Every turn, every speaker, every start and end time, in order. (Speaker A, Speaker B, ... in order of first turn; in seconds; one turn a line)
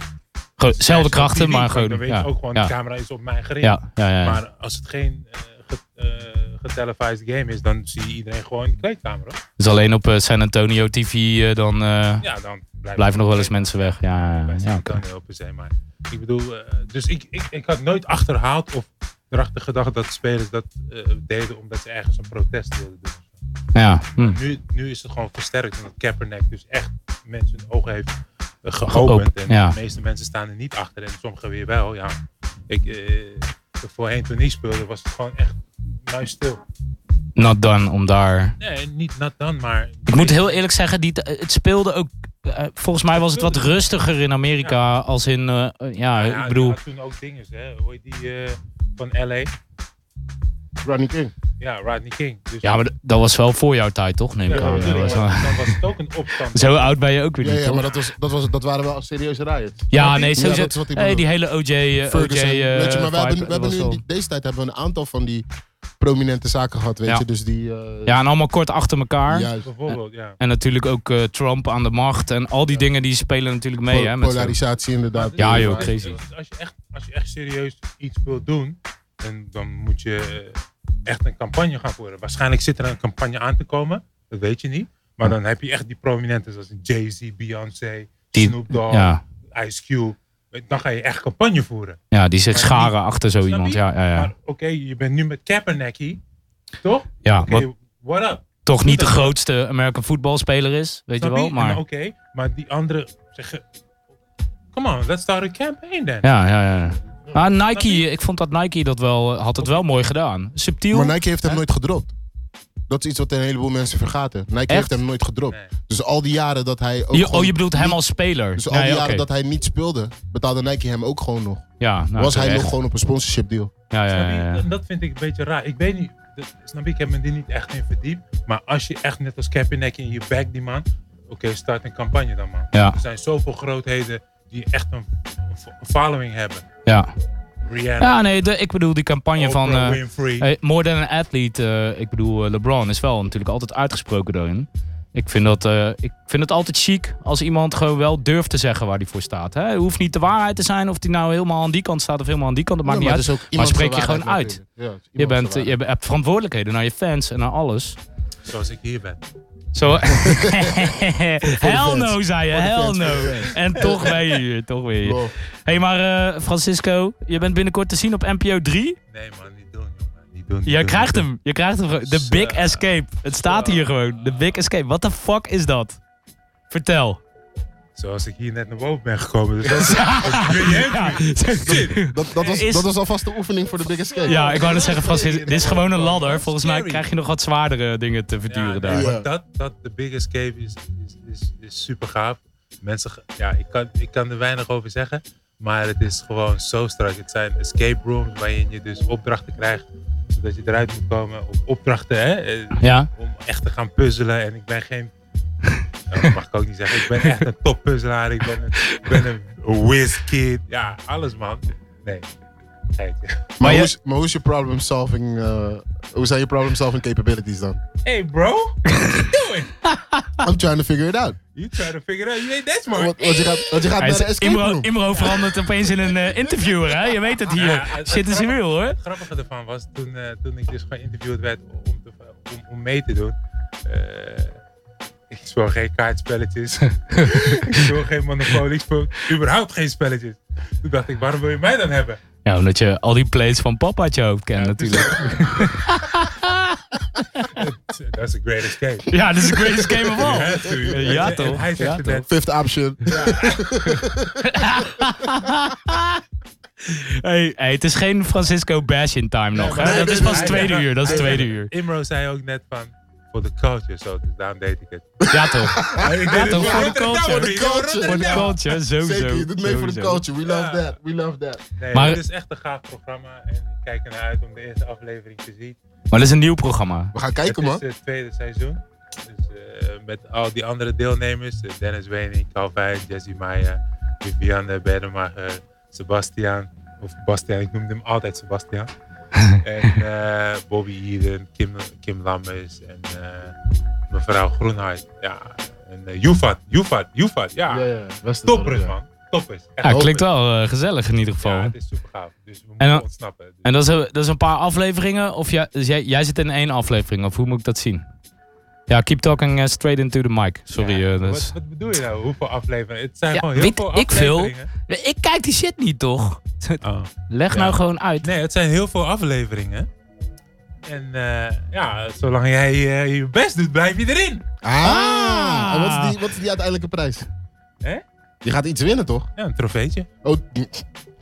Speaker A: 0.6-2.7
Speaker B: 0.6-9.4
Speaker A: 3.6-4.4
Speaker A: 9.6-12.2
Speaker B: 12.2-23.4
Speaker A: 13.0-15.0
Speaker A: 23.8-24.4
Speaker B: 24.2-36.6
Speaker A: 28.9-29.8
Speaker A: 37.4-38.6
Speaker B: 38.6-40.6
Speaker A: 40.1-46.8
Speaker B: 43.1-43.9
Speaker B: 46.1-49.5
Speaker C: 50.8-51.3
Speaker B: 51.6-52.8
Speaker A: 52.6-55.8
Speaker B: 54.5-56.9
Speaker C: 54.5-55.3
Speaker A: 56.5-57.9
Speaker C: 57.4-61.3
Speaker A: 59.9-64.0
Speaker C: 62.1-65.5
Speaker C: 66.0-68.2
Speaker A: 68.1-69.5
Speaker C: 69.3-69.7
Speaker B: 69.6-70.4
Speaker A: 70.4-74.6
Speaker C: 73.9-76.2
Speaker B: 75.1-92.0
Speaker A: 75.4-76.2
Speaker A: 88.3-89.2
Speaker A: 92.1-94.3
Speaker B: 92.5-92.9
Speaker B: 93.5-96.2
Speaker B: 96.8-99.3
Speaker A: 97.2-97.7
Speaker A: 98.7-101.8
Speaker B: 101.2-103.6
Speaker B: 104.7-106.3
Speaker A: 106.2-111.6
Speaker B: 107.7-108.0
Speaker B: 109.6-109.9
Speaker C: 110.9-112.1
Speaker C: 112.9-118.0
Speaker A: 117.1-119.2
Speaker C: 118.5-123.7
Speaker A: 121.8-122.7
Speaker A: 123.9-124.6
Speaker B: 124.1-136.7
Speaker A: 132.7-133.0
Speaker A: 136.9-137.1
Speaker B: 137.6-138.2
Speaker A: 138.0-154.6
Speaker B: 139.4-140.5
Speaker C: 152.8-155.7
Speaker A: 155.2-158.0
Speaker B: 158.5-159.2
Speaker A: 159.7-169.0
Speaker C: 160.2-160.9
Speaker C: 161.4-164.2
Speaker C: 165.0-165.3
Speaker B: 169.1-171.3
Speaker A: 170.7-176.0
Speaker B: 172.0-172.9
Speaker B: 173.4-174.6
Speaker A: 176.7-177.2
Speaker B: 178.0-182.6
Speaker A: 179.8-182.9
Speaker C: 182.0-184.7
Speaker B: 184.1-187.0
Speaker A: 184.3-189.1
Speaker B: 188.5-205.1
Speaker C: 188.9-189.3
Speaker A: 202.8-203.1
Speaker B: 206.1-212.3
Speaker A: 207.2-207.4
Speaker A: 208.8-209.2
Speaker B: 213.0-213.5
Speaker C: 213.6-217.8
Speaker A: 213.6-213.9
Speaker B: 218.1-219.8
Speaker A: 218.9-219.3
Speaker A: 219.8-220.4
Speaker C: 220.4-221.4
Speaker B: 221.6-223.9
Speaker C: 222.9-224.9
Speaker A: 224.0-229.0
Speaker B: 225.1-226.1
Speaker B: 227.5-234.6
Speaker B: 235.3-242.2
Speaker A: 237.2-237.8
Speaker A: 242.4-247.5
Speaker B: 244.6-245.8
Speaker B: 247.5-249.1
Speaker A: 249.1-252.3
Speaker C: 249.6-250.3
Speaker B: 250.2-252.3
Speaker C: 251.0-251.3
Speaker C: 252.3-254.7
Speaker B: 253.1-253.7
Speaker A: 253.9-256.2
Speaker A: 256.8-261.7
Speaker B: 259.6-265.2
Speaker C: 259.6-261.4
Speaker C: 265.2-271.6
Speaker A: 265.3-270.2
Speaker B: 265.8-268.6
Speaker B: 270.4-270.9
Speaker B: 271.8-275.8
Speaker A: 271.9-272.2
Speaker A: 276.1-277.1
Speaker C: 277.1-277.8
Speaker B: 277.4-288.9
Speaker B: 289.6-293.6
Speaker B: 294.1-297.9
Speaker C: 297.7-298.9
Speaker B: 298.4-300.3
Speaker A: 299.8-301.7
Speaker B: 301.4-303.7
Speaker A: 302.8-303.1
Speaker A: 303.6-308.0
Speaker A: 308.9-311.5
Speaker B: 310.8-314.7
Speaker A: 313.3-318.3
Speaker B: 316.8-319.9
Speaker B: 320.9-324.4
Speaker C: 324.6-327.3
Speaker A: 324.8-326.2
Speaker C: 328.4-329.3
Speaker B: 329.4-330.1
Speaker C: 330.2-330.9